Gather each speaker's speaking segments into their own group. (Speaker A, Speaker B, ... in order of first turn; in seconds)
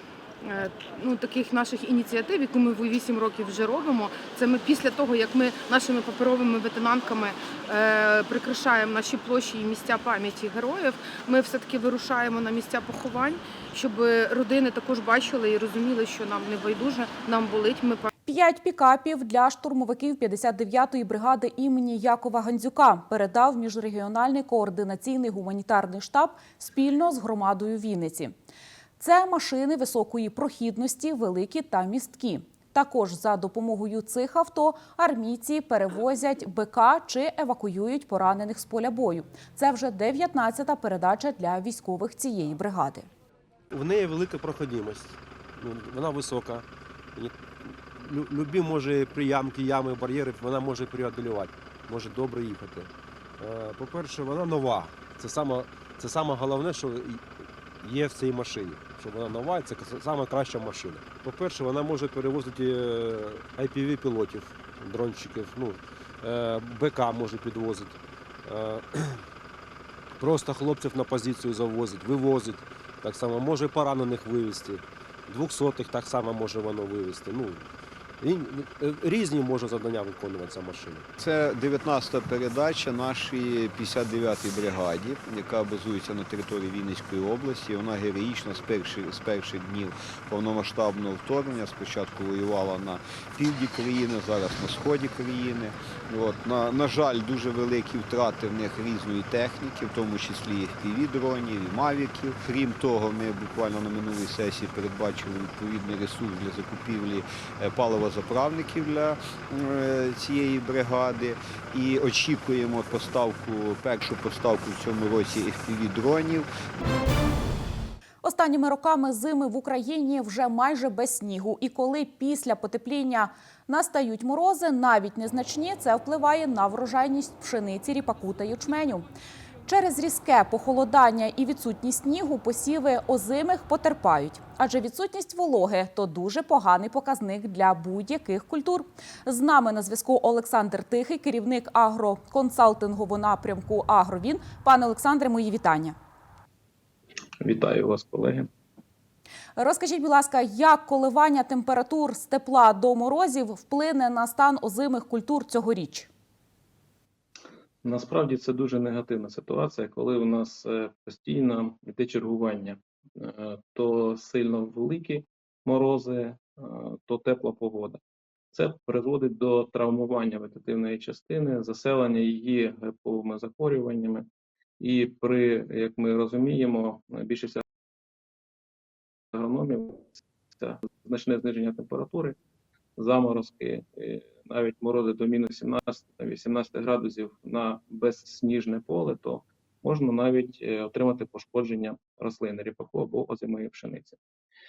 Speaker A: 0.4-18.1
Speaker B: 18.3-28.3, 29.0-43.1, 118.2-129.1, 129.7-146.0, 149.6-156.1
Speaker C: 43.7-46.6, 47.1-57.3, 57.8-69.2, 70.2-77.7, 78.2-81.1
Speaker D: 81.2-116.5
Speaker E: 147.4-148.5, 157.8-168.0, 168.5-174.3, 174.8-177.6, 179.3-182.4, 183.0-194.2